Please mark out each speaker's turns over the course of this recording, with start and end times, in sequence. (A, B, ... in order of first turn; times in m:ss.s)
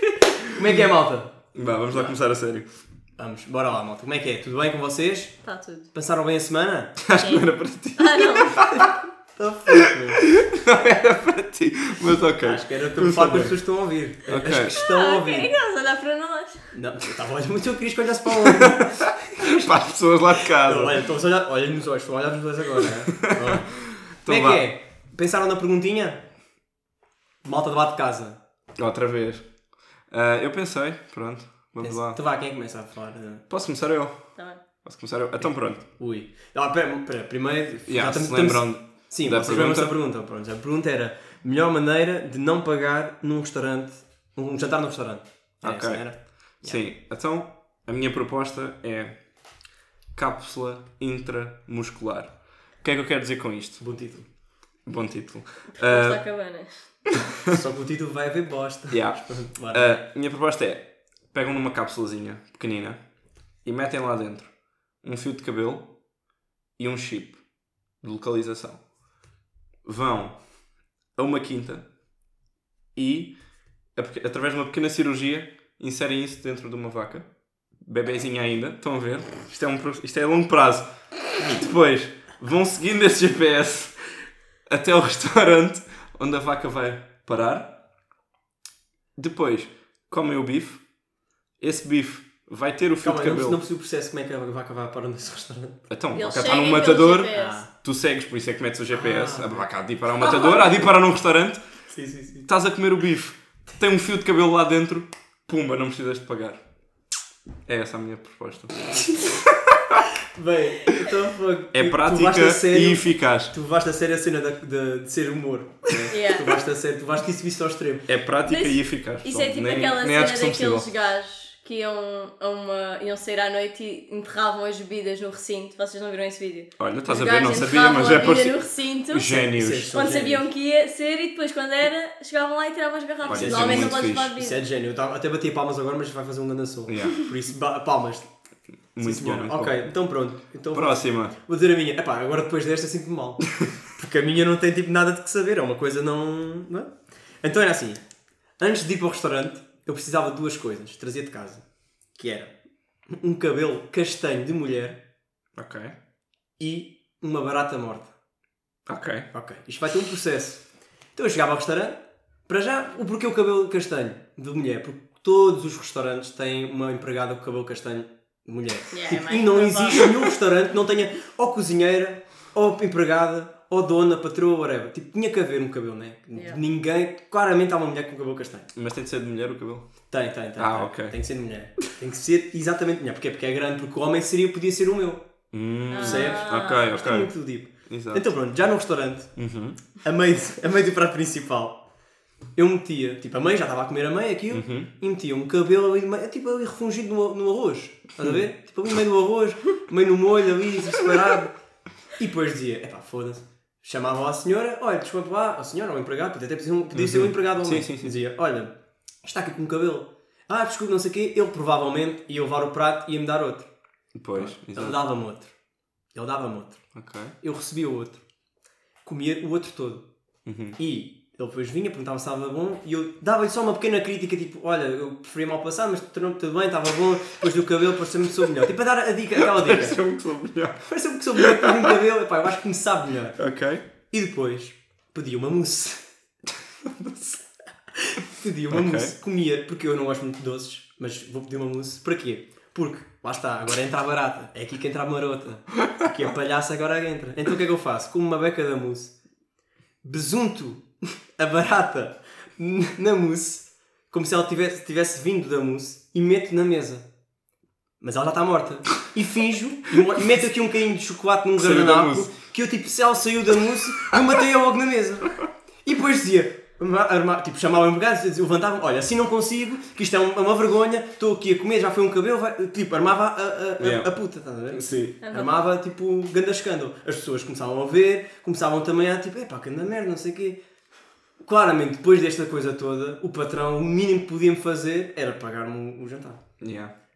0:00.5-0:01.4 A
0:01.5-0:02.8 B
0:01.9-0:02.2 A
0:03.2-0:07.0 A
0:05.4-0:05.9 C
0:07.0-0:08.9 B
0:07.2-0:09.0 C
0:08.6-0:10.3 A
0:10.2-0:13.6 B
0:12.4-0:15.5 A
0:14.3-0:14.8 B
0:14.7-0:16.7 C
0:16.7-0:26.3 A
0:19.4-0:21.0 B
0:23.2-0:24.6 B
0:27.4-0:28.4 A
0:28.8-0:29.6 B
0:30.1-0:32.2 B
0:31.8-0:33.4 A
0:33.5-0:35.9 B
0:34.4-0:34.6 C
0:35.9-0:46.8 A
0:37.9-0:40.0 B
0:45.6-0:49.2 B
0:50.1-0:53.8 B
0:53.8-0:54.3 A
0:54.8-0:56.2 B
0:55.7-0:57.0 C
0:57.5-1:00.0 A
0:58.9-1:03.1 B
1:03.6-1:06.0 B
1:06.8-1:08.9 B
1:09.8-1:10.4 B
1:11.1-1:11.9 B
1:12.9-1:27.8 B
1:29.2-1:30.9 B
1:31.6-1:33.6 B
1:33.0-1:35.8 A
1:35.9-1:41.6 B
1:36.2-1:37.6 C
1:37.3-1:37.7 A
1:39.0-1:39.6 A
1:40.2-1:40.7 C
1:41.9-1:42.5 A
1:42.5-1:46.6 B
1:47.7-1:50.0 B
1:50.4-1:58.1 A
1:51.7-1:53.5 B
1:56.1-1:56.6 C
1:58.1-2:00.9 B
1:58.5-2:14.6 C
2:06.8-2:09.9 B
2:09.3-2:10.5 A
2:13.2-2:14.4 B
2:13.3-2:18.3 A
2:16.9-2:17.2 B
2:18.9-2:19.8 B
2:19.0-2:28.0 A
2:20.7-2:21.3 B
2:28.6-2:32.6 A
2:33.1-2:35.0 A
2:35.6-2:36.0 B
2:36.6-2:38.1 A
2:38.9-2:39.3 B
2:39.3-2:58.7 A
2:48.9-2:50.2 C
2:56.4-2:56.6 C
2:58.8-3:00.0 B
3:00.1-3:05.3 A
3:00.6-3:01.2 B
3:05.5-3:08.3 B
3:05.9-3:07.0 C
3:06.0-3:09.4 A
3:09.4-3:09.8 B
3:10.0-3:11.8 A
3:12.6-3:21.6 A
3:14.5-3:14.9 B
3:22.1-3:33.7 A
3:26.9-3:28.2 B
3:34.2-3:35.0 B
3:34.3-3:35.6 A
3:36.1-3:38.2 A
3:37.0-3:37.4 B
3:39.0-3:40.1 A
3:40.4-3:40.8 B
3:40.8-3:50.0 A
3:49.4-3:50.8 B
3:50.8-3:53.4 A
3:51.4-3:51.8 B
3:53.4-3:53.8 B
3:54.1-3:56.1 A
3:56.8-3:57.4 B
3:58.0-4:09.2 A
3:58.7-3:59.1 B
4:10.0-4:17.1 A
4:18.0-4:40.6 A
4:21.6-4:22.3 B
4:33.8-4:34.1 B
4:34.7-4:35.2 B
4:35.2-4:35.5 C
4:41.4-4:46.4 A
4:46.6-4:46.9 B